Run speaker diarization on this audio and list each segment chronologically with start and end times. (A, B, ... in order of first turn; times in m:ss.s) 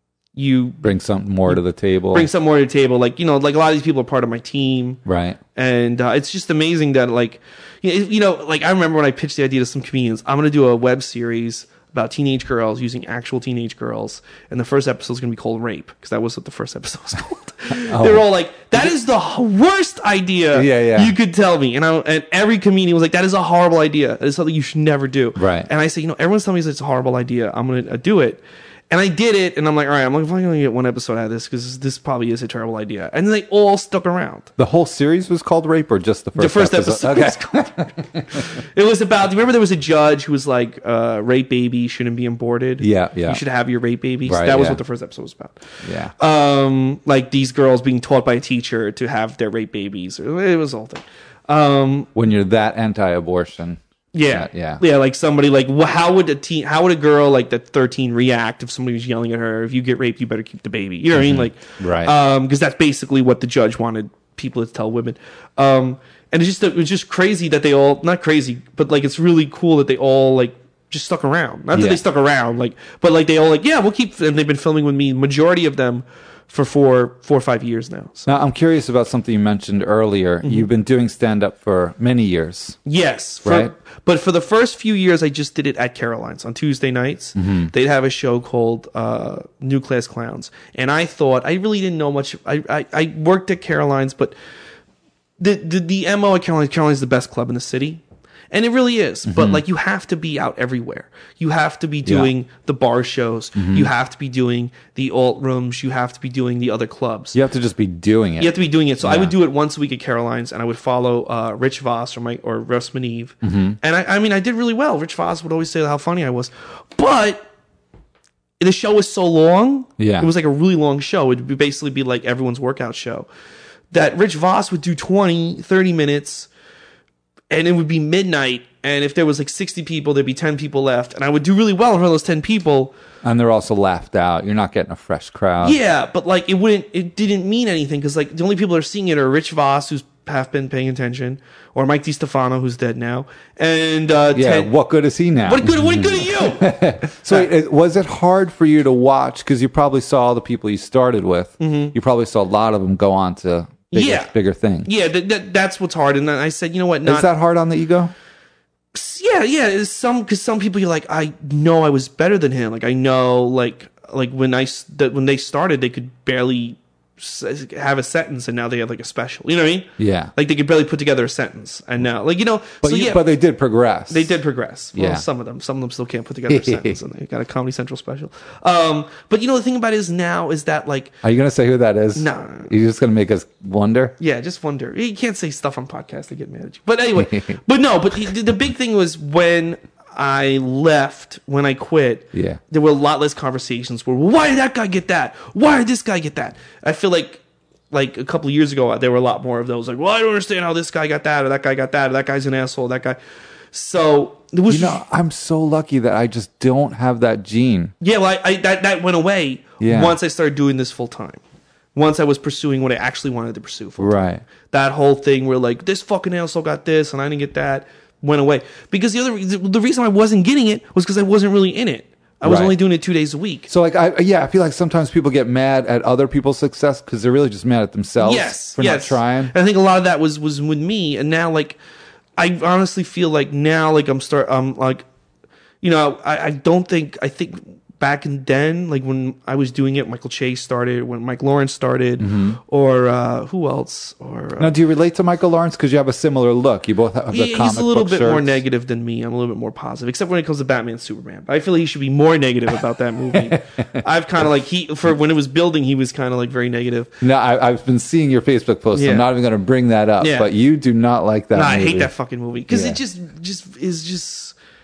0:00.3-0:05.0 A
0:00.8-0:02.3 B
0:05.1-0:05.4 B
0:05.6-0:34.5 A
0:17.8-0:18.2 B
0:20.5-0:21.1 B
0:25.4-0:25.7 B
0:34.6-0:38.4 B
0:36.4-0:37.7 A
0:38.6-0:45.6 A
0:42.8-0:43.4 B
0:44.2-0:44.8 B
0:45.8-0:46.1 B
0:46.2-0:52.1 A
0:52.1-0:54.8 B
0:54.1-1:18.4 A
1:01.1-1:02.1 B
1:11.7-1:12.0 B
1:18.3-1:22.8 B
1:20.4-1:20.7 A
1:22.8-1:34.3 A
1:23.4-1:23.7 B
1:27.4-1:27.7 B
1:35.4-1:47.4 A
1:39.3-1:39.6 B
1:42.0-1:42.3 B
1:43.6-1:43.9 B
1:47.3-1:49.3 B
1:48.4-1:57.4 A
1:53.4-1:53.8 B
1:58.6-2:03.3 A
2:00.0-2:00.3 B
2:03.9-2:06.5 A
2:07.5-2:12.9 A
2:13.2-2:15.8 B
2:15.6-2:24.7 A
2:24.3-2:34.9 B
2:25.4-2:26.7 A
2:31.6-2:31.9 A
2:33.9-2:34.3 A
2:34.8-2:37.3 A
2:37.0-2:38.1 B
2:38.9-2:53.3 A
2:50.0-2:50.3 B
2:52.8-2:54.3 B
2:54.1-3:01.2 A
2:55.0-2:55.2 B
2:56.5-2:57.0 B
3:01.2-3:04.1 B
3:02.1-3:02.7 A
3:04.2-3:23.2 A
3:07.2-3:07.6 B
3:12.3-3:12.6 B
3:23.7-3:25.0 A
3:24.7-3:27.9 B
3:28.0-3:31.4 A
3:29.8-3:30.2 B
3:31.9-3:34.2 A
3:34.0-3:34.4 B
3:34.7-3:43.7 A
3:42.4-3:42.8 B
3:43.7-3:49.5 B
3:48.2-3:51.8 A
3:52.4-3:55.0 A
3:55.8-4:04.8 A
4:02.2-4:02.6 B
4:04.6-4:08.6 B
4:07.3-4:17.1 A
4:17.2-4:22.1 B
4:18.9-4:19.3 A
4:20.2-4:20.5 A
4:21.5-4:24.5 A
4:22.7-4:23.0 B